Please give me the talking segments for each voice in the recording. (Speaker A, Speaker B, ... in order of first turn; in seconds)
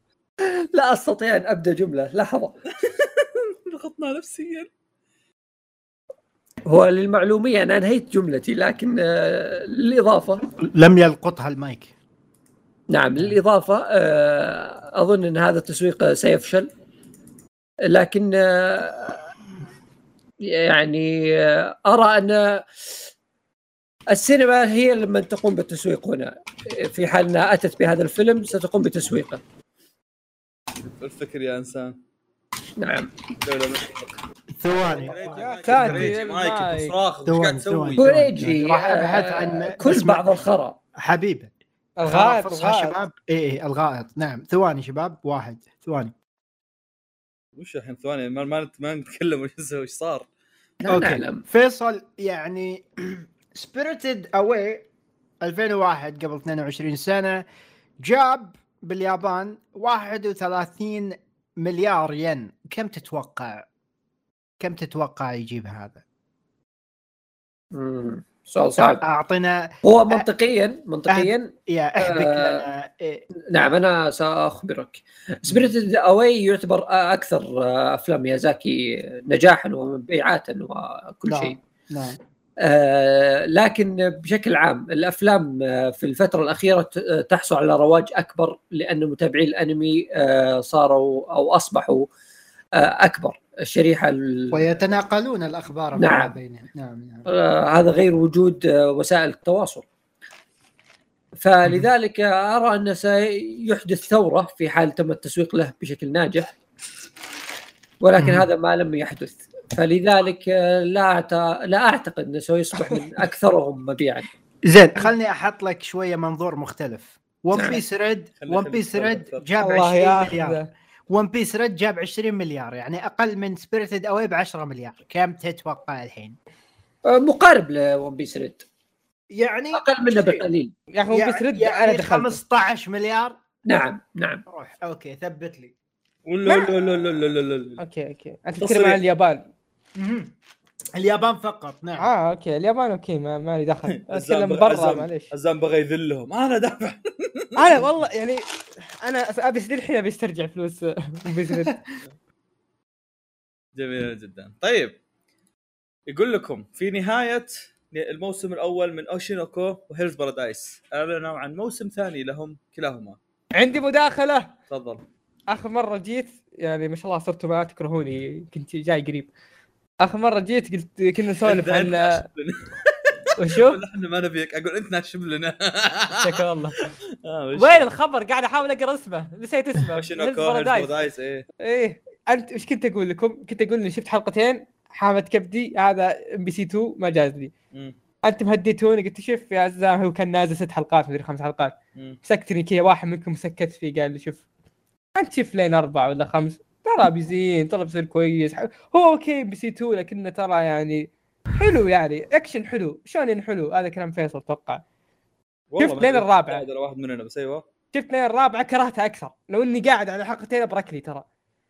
Speaker A: 0.4-2.6, 6.7-10.5, 12.9-16.7, 17.9-19.3, 20.5-23.0, 24.1-29.4, 32.8-33.1, 38.0-40.8, 50.8-51.4, 67.7-69.0, 69.8-72.7, 73.5-81.6, 82.6-92.1, 92.8-94.6, 96.0-96.3, 97.3-99.8, 101.4-106.6, 108.0-114.3, 117.5-117.8, 127.0-128.7, 129.7-130.7, 133.7-134.4
Speaker B: 2.8-4.7, 30.8-32.0, 33.4-34.1, 34.9-38.5, 47.6-50.3, 118.4-119.5, 136.3-137.8, 138.6-139.0, 143.9-147.6, 153.8-154.9, 156.1-163.2, 164.7-165.0, 171.4-177.9, 180.0-181.4, 205.7-207.6
Speaker C: 10.6-11.9, 34.6-36.2, 37.3-40.2, 41.0-41.5, 42.1-46.1, 50.9-54.9, 55.4-57.4, 58.0-63.6, 64.6-66.0, 68.8-70.3, 71.1-73.2, 75.5-75.7, 81.3-82.2, 94.5-97.3, 108.2-108.5, 114.7-126.4, 129.3-130.4, 131.1-133.4, 134.5-135.7, 140.0-140.3, 141.0-142.1
Speaker D: 35.3-36.9, 42.0-43.0, 112.8-113.0, 119.6-120.7, 130.9-132.4, 137.8-139.4, 142.0-145.3, 147.6-148.4, 149.0-151.8, 163.5-164.5, 165.5-169.3, 170.0-172.3, 173.4-173.8, 176.2-176.9, 177.6-180.9, 181.6-187.5, 188.2-194.4, 195.2-201.1, 201.6-204.8, 205.8-206.6, 207.9-211.2